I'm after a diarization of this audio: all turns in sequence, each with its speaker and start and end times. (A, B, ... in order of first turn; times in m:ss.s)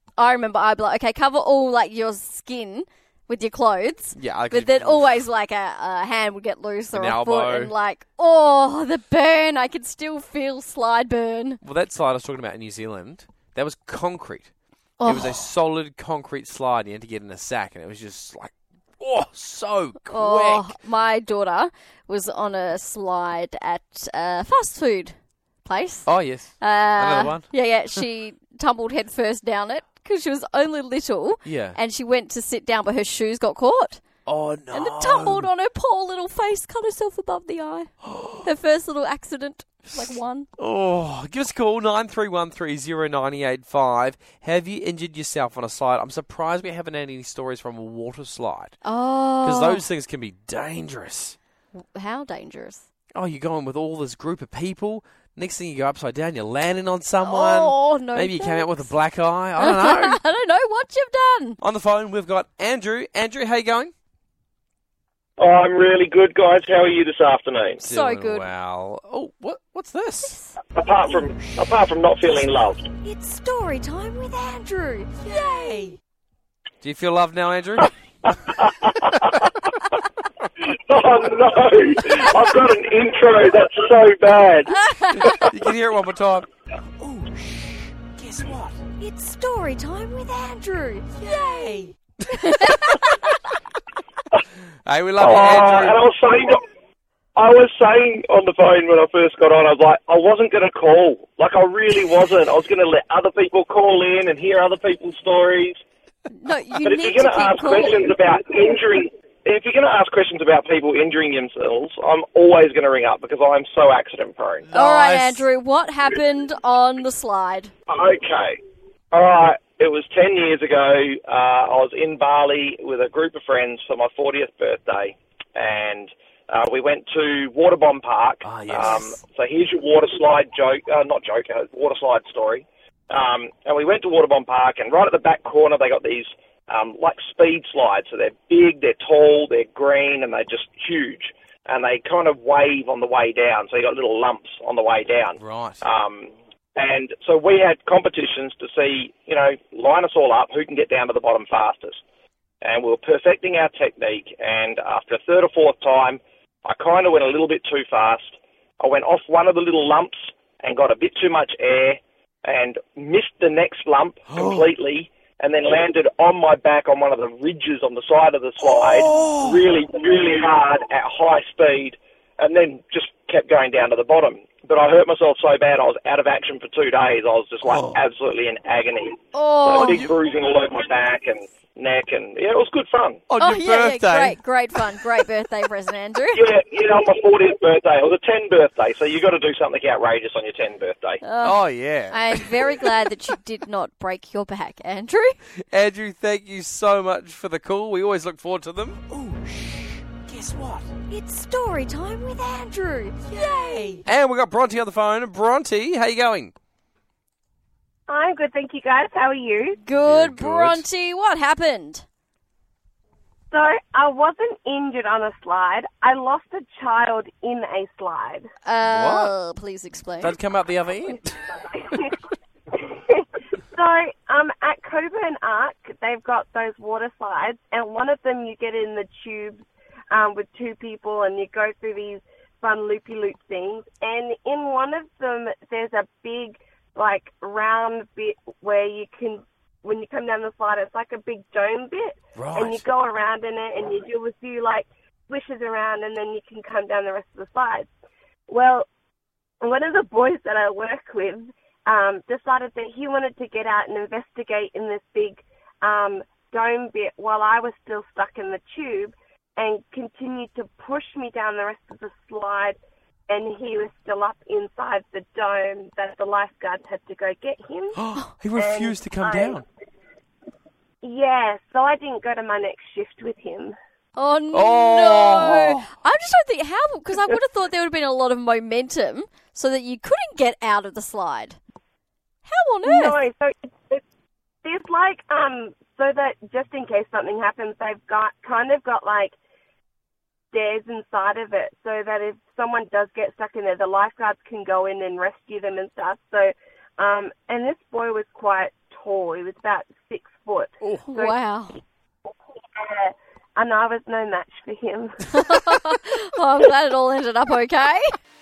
0:00.2-0:11.6 A
0:04.2-0:05.2 B
0:06.9-0:07.7 B
0:11.6-0:14.5 B
0:15.0-0:15.4 A
0:15.0-0:20.7 B
0:20.1-0:26.1 A
0:26.1-0:27.5 B
0:26.6-0:34.0 A
0:31.4-0:31.8 B
0:34.3-0:35.5 B
0:34.7-0:37.9 A
0:38.0-0:38.5 B
0:38.4-0:40.5 A
0:40.6-0:48.7 B
0:48.8-0:49.8 A
0:49.4-0:51.4 B
0:51.7-0:52.8 A
0:53.2-1:00.2 B
0:57.2-0:58.9 A
0:59.6-1:01.6 A
1:01.6-1:03.9 B
1:05.4-1:07.8 C
1:07.8-1:10.4 B
1:07.8-1:08.5 A
1:10.3-1:10.6 A
1:10.7-1:12.9 C
1:13.0-1:16.0 A
1:16.8-1:17.9 B
1:18.2-1:19.5 C
1:20.6-1:24.8 C
1:24.7-1:25.5 A
1:25.1-1:26.5 B
1:27.0-1:28.8 B
1:29.0-1:33.3 A
1:32.3-1:33.2 B
1:34.9-1:36.0 B
1:35.2-1:36.6 C
1:37.4-1:45.8 C
1:46.3-1:48.1 A
1:46.8-1:54.7 C
1:54.7-1:55.5 B
1:54.7-1:57.7 A
1:57.9-1:58.6 C
1:59.1-2:32.0 C
2:08.4-2:09.2 B
2:25.4-2:25.8 B
2:32.6-3:03.2 C
2:44.3-2:44.7 B
2:48.6-2:49.6 B
2:57.7-2:58.0 B
2:59.3-3:00.0 A
2:59.8-3:00.1 B
3:03.3-3:04.4 B
3:03.4-3:06.4 A
3:06.3-3:11.2 C
3:11.2-3:11.6 A
3:11.4-3:13.0 B
3:12.1-3:15.4 A
3:15.7-3:20.9 B
3:21.1-3:24.0 A
3:24.0-3:26.5 B
3:28.1-3:29.8 D
3:29.8-3:32.0 A
3:30.0-3:30.8 B
3:33.5-3:38.5 D
3:38.7-3:40.3 A
3:38.8-3:39.3 B
3:40.2-3:41.8 B
3:42.7-4:07.9 D
4:02.4-4:02.8 B
4:08.5-4:08.9 D
4:09.6-4:22.8 D
4:23.3-4:28.0 D
4:28.0-4:29.6 B
4:28.6-4:29.6 D
4:31.0-4:33.8 D
4:34.2-4:41.6 A
4:34.5-4:35.9 B
4:42.4-4:43.2 A
4:42.8-4:44.0 D
4:44.6-4:49.4 D
4:50.5-5:01.4 D
5:01.1-5:01.8 A
5:02.8-5:05.6 D
5:05.3-5:08.1 A